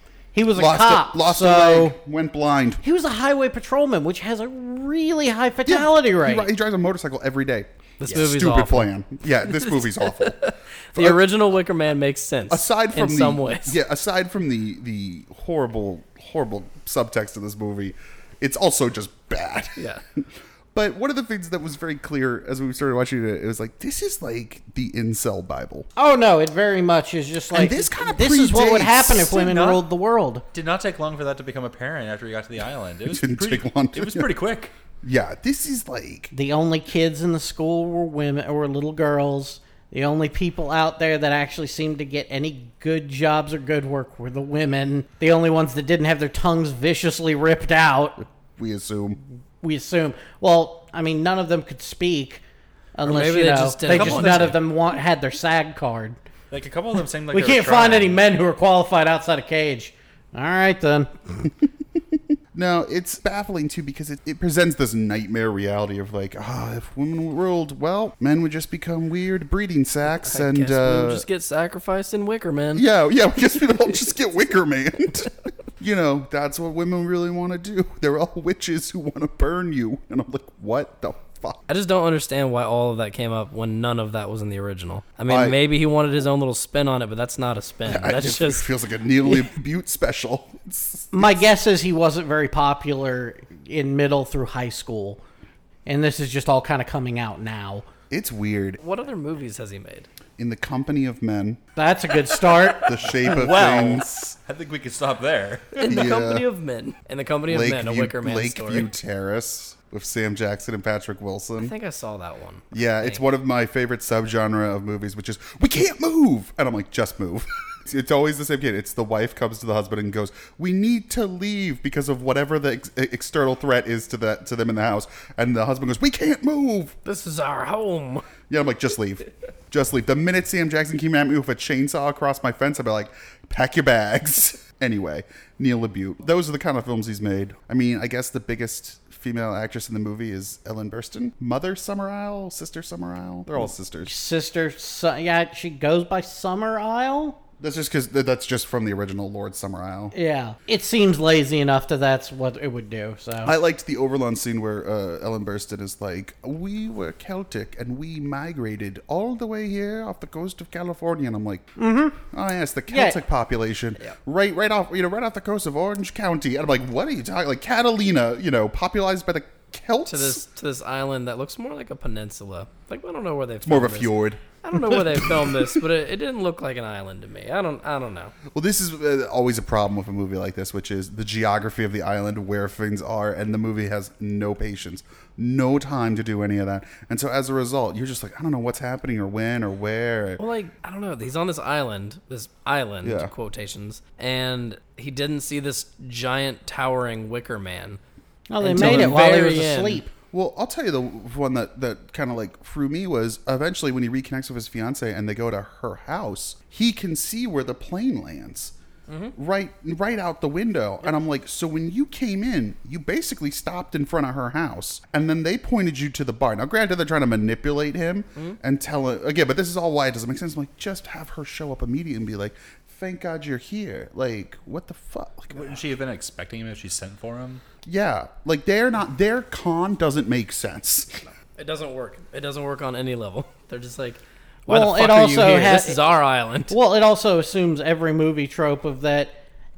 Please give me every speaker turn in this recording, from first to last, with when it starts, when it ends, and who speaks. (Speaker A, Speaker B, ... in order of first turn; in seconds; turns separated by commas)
Speaker A: 0.3-1.9, Speaker B: 0.5-2.8, Speaker A: 2.8-6.5, Speaker B: 5.7-10.4, Speaker C: 8.0-8.9, Speaker C: 9.7-13.8, Speaker B: 10.9-11.3, Speaker B: 12.5-25.9, Speaker C: 19.8-20.0, Speaker A: 25.9-30.4, Speaker B: 27.5-29.5, Speaker D: 29.3-29.9, Speaker D: 30.5-34.7, Speaker B: 33.1-34.3, Speaker B: 35.0-36.3, Speaker A: 36.3-48.3, Speaker B: 48.6-49.2, Speaker A: 49.6-52.4, Speaker A: 52.9-56.2, Speaker C: 53.0-54.6, Speaker D: 53.9-54.6, Speaker D: 56.5-58.3, Speaker A: 57.3-61.5, Speaker B: 62.5-71.2, Speaker C: 70.2-72.8, Speaker B: 72.7-81.6, Speaker C: 81.7-88.7, Speaker B: 85.3-85.6, Speaker B: 87.8-91.4, Speaker A: 91.1-95.2, Speaker A: 95.8-97.8, Speaker B: 98.1-98.8, Speaker C: 98.8-100.1, Speaker B: 100.4-101.6, Speaker A: 101.8-102.9, Speaker B: 102.8-104.3, Speaker D: 103.1-105.9, Speaker C: 105.8-108.9, Speaker B: 105.8-106.4, Speaker B: 107.5-111.7, Speaker C: 111.6-113.2, Speaker B: 112.7-127.0, Speaker C: 127.0-128.2, Speaker B: 128.5-144.1, Speaker A: 144.0-147.4, Speaker B: 147.6-150.1, Speaker A: 150.1-153.5, Speaker B: 153.4-170.4, Speaker A: 161.8-162.2, Speaker A: 162.9-163.2, Speaker C: 170.1-178.3, Speaker B: 173.6-175.8, Speaker B: 178.5-190.4, Speaker C: 190.4-198.0, Speaker B: 193.0-193.3, Speaker A: 198.5-200.1, Speaker C: 198.6-200.0, Speaker B: 198.7-199.2, Speaker B: 200.3-208.7, Speaker C: 209.1-209.3, Speaker B: 209.3-225.8, Speaker D: 225.5-227.6, Speaker B: 227.8-231.2, Speaker C: 231.6-236.7, Speaker A: 234.7-236.1, Speaker A: 236.7-239.4